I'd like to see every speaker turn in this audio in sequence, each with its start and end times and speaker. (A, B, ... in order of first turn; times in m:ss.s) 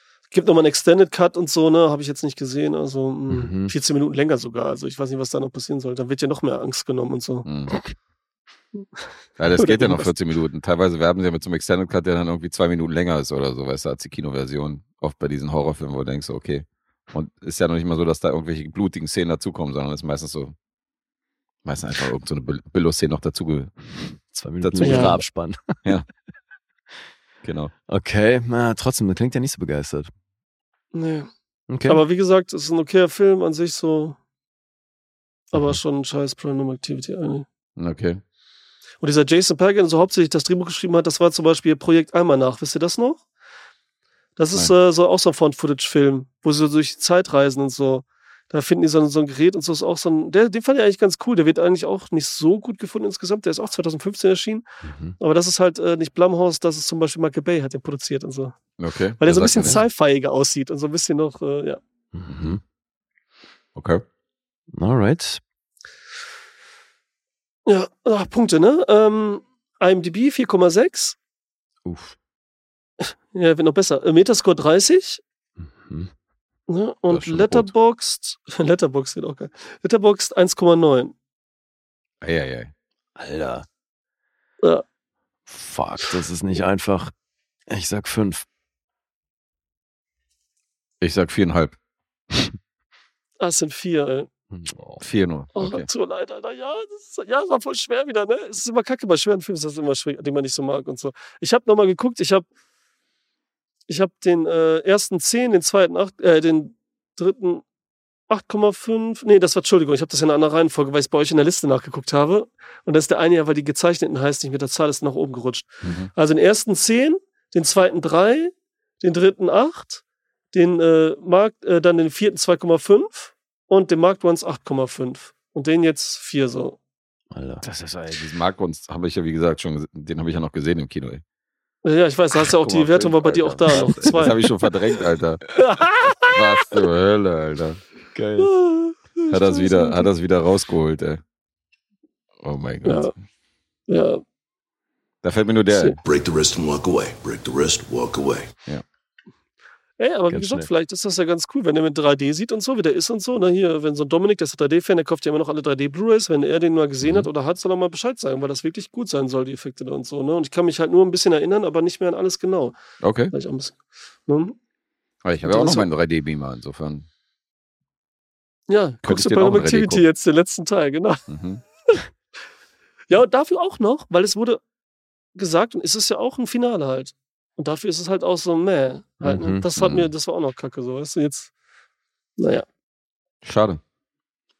0:00.3-0:07.4 A
0:03.3-0:03.7 B
0:07.4-0:07.8 C
0:08.8-0:09.1 A
0:09.4-0:20.5 C
0:09.6-0:10.1 A
0:21.6-0:25.2 C
0:24.3-0:25.8 B
0:24.8-0:25.2 A
0:27.4-0:27.7 C
0:27.9-0:30.1 B
0:30.9-0:31.3 A
0:31.7-0:32.0 B
0:31.8-0:34.2 A
0:35.5-0:37.4 A
0:35.5-0:35.8 B
0:37.8-0:38.2 C
0:39.0-0:43.2 A
0:44.4-0:54.7 A
0:54.8-0:55.2 B
0:55.2-0:58.6 A
0:58.8-0:59.8 C
0:59.2-1:01.8 A
1:02.1-1:02.6 B
1:03.8-1:04.0 C
1:04.7-1:05.4 B
1:07.7-1:11.2 A
1:11.8-1:12.2 B
1:13.0-1:15.2 A
1:15.6-1:16.1 B
1:16.7-1:21.1 A
1:17.1-1:17.7 C
1:22.2-1:22.7 C
1:23.2-1:23.7 B
1:25.5-1:27.1 B
1:27.7-1:28.4 B
1:31.0-1:31.8 C
1:33.4-1:34.3 A
1:34.5-1:35.0 B
1:35.0-1:35.9 C
1:35.5-1:42.5 A
1:43.9-1:47.6 A
1:48.3-2:00.0 A
2:00.5-2:06.8 A
2:07.3-2:07.6 B
2:07.6-2:11.2 C
2:11.8-2:14.5 A
2:12.4-2:15.6 C
2:13.8-2:14.2 B
2:15.6-2:16.8 A
2:16.2-2:17.8 C
2:18.1-2:18.5 B
2:18.4-2:20.1 A
2:19.3-2:21.2 C
2:22.4-2:23.2 C
2:22.8-2:23.1 A
2:23.9-2:24.2 A
2:25.2-2:26.0 C
2:26.0-2:28.5 D
2:30.0-2:42.8 A
2:30.3-2:30.7 B
2:43.0-2:43.3 C
2:43.3-2:44.6 A
2:45.2-2:47.1 C
2:45.4-2:45.9 A
2:48.7-2:51.3 A
2:49.0-2:50.0 C
2:51.3-2:51.6 C
2:53.1-2:54.6 A
2:55.3-3:01.5 A
2:59.2-2:59.6 B
2:59.8-3:00.1 C
3:02.4-3:02.6 A
3:03.4-3:03.8 C